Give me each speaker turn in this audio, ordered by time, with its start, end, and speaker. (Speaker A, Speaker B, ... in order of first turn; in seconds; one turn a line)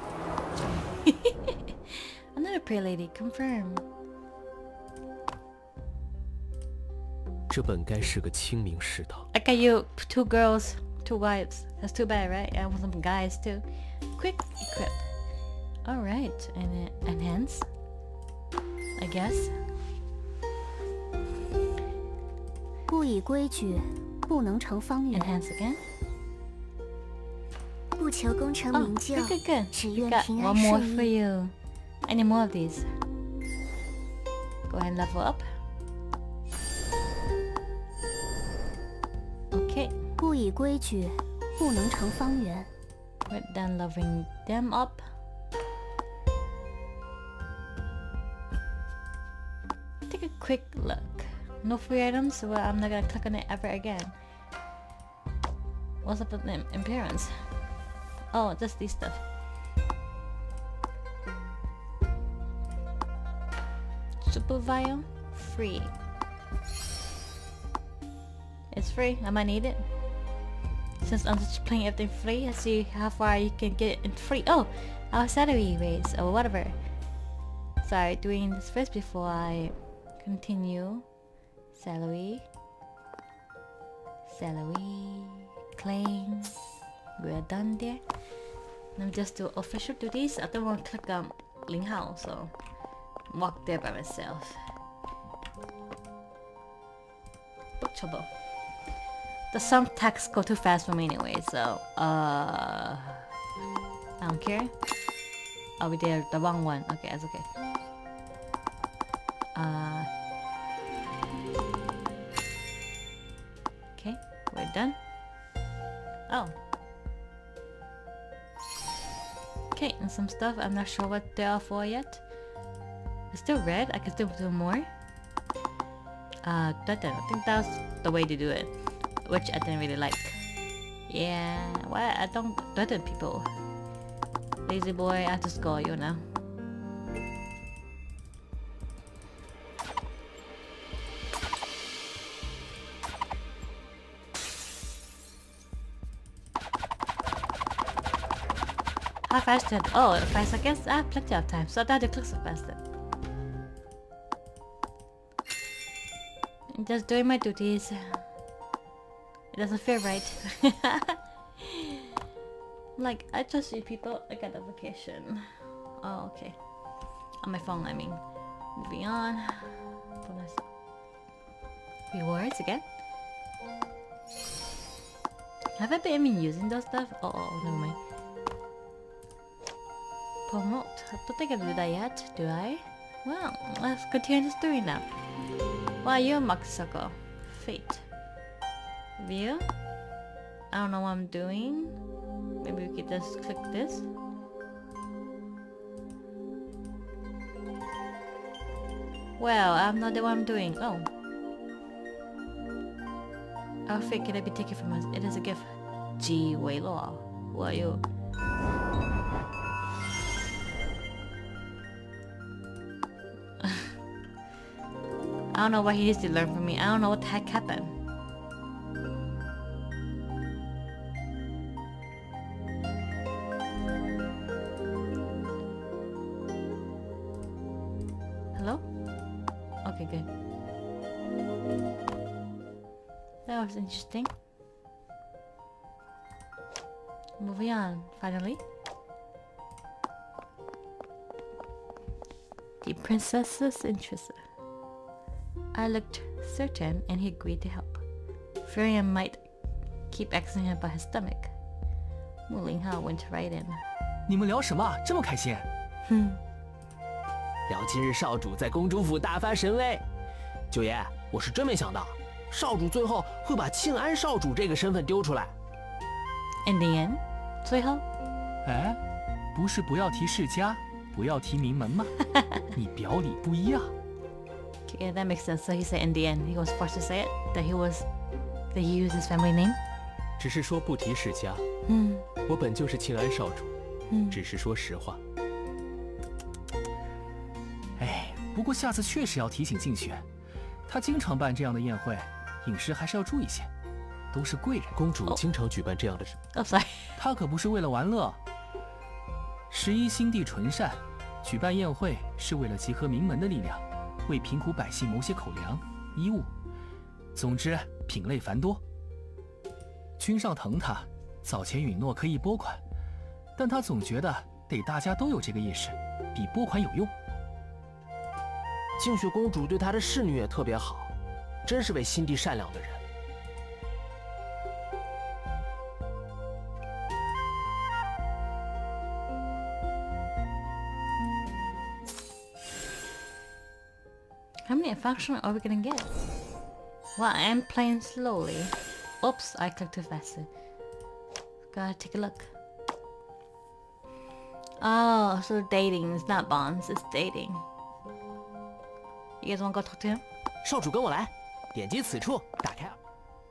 Speaker A: 1.0-3.8
Speaker B: 7.5-9.3
Speaker A: 9.3-13.6
Speaker A: 14.2-15.1
Speaker A: 15.8-17.7
Speaker A: 19.0-19.6
Speaker C: 22.9-25.3
Speaker A: 25.1-25.8
Speaker C: 28.0-31.1
Speaker A: 28.7-31.5
Speaker A: 32.0-32.9
Speaker A: 34.7-35.6
Speaker A: 39.5-40.0
Speaker C: 40.2-42.7
Speaker A: 43.3-45.0
Speaker A: 50.1-54.1
Speaker A: 56.0-57.4
Speaker A: 58.3-59.2
Speaker A: 64.2-65.9
Speaker A: 68.7-69.8
Speaker A: 71.0-76.8
Speaker A: 77.8-81.0
Speaker A: 81.7-82.5
Speaker A: 84.3-86.5
Speaker A: 87.2-88.0
Speaker A: 89.0-92.5
Speaker A: 93.3-94.6
Speaker A: 97.8-98.3
Speaker A: 99.5-103.2
Speaker A: 104.2-104.7
Speaker A: 105.8-107.5
Speaker A: 109.5-110.1
Speaker A: 114.0-115.0
Speaker A: 116.3-116.5
Speaker A: 119.7-122.2
Speaker A: 123.3-124.9
Speaker A: 126.4-130.4
Speaker A: 131.1-133.5
Speaker A: 134.6-136.2
Speaker A: 149.3-152.8
Speaker A: 156.7-158.2
Speaker A: 159.5-161.9
Speaker A: 163.0-165.5
Speaker A: 166.0-166.6
Speaker A: 167.4-168.2
Speaker A: 168.7-170.7
Speaker A: 172.1-172.8
Speaker A: 175.8-178.0
Speaker A: 180.5-185.1
Speaker A: 186.0-188.0
Speaker A: 189.2-189.6
Speaker A: 190.7-192.0
Speaker A: 192.6-194.1
Speaker A: 199.4-201.1
Speaker A: 203.8-208.0
Speaker A: 213.6-213.9
Speaker A: 215.5-217.9
Speaker A: 228.5-228.8
Speaker A: 229.8-230.3
Speaker A: 233.4-234.3
Speaker A: 237.4-238.6
Speaker A: 242.8-244.4
Speaker A: 245.7-248.0
Speaker A: 248.6-249.4
Speaker A: 250.1-251.5
Speaker A: 252.5-253.8
Speaker D: 254.3-255.7
Speaker A: 256.1-256.4
Speaker B: 257.7-260.0
Speaker B: 260.7-265.5
Speaker A: 266.6-268.0
Speaker D: 268.6-269.0
Speaker D: 269.5-272.1
Speaker D: 272.7-273.9
Speaker A: 274.9-278.1
Speaker A: 278.7-279.8
Speaker B: 280.4-281.6
Speaker A: 281.9-282.2
Speaker B: 282.4-283.7
Speaker A: 284.1-284.4
Speaker B: 284.3-285.2
Speaker D: 288.0-290.2
Speaker D: 290.9-293.7
Speaker D: 294.3-295.0
Speaker B: 294.9-296.4
Speaker A: 296.5-297.1
Speaker D: 297.2-298.4
Speaker D: 299.7-306.5
Speaker D: 307.3-308.8
Speaker D: 310.2-312.8
Speaker D: 313.6-317.1
Speaker B: 319.0-321.1
Speaker B: 321.6-323.0
Speaker A: 334.7-336.1
Speaker A: 337.1-340.5
Speaker A: 341.7-342.5
Speaker A: 344.8-347.6
Speaker A: 349.4-350.2
Speaker B: 350.6-353.0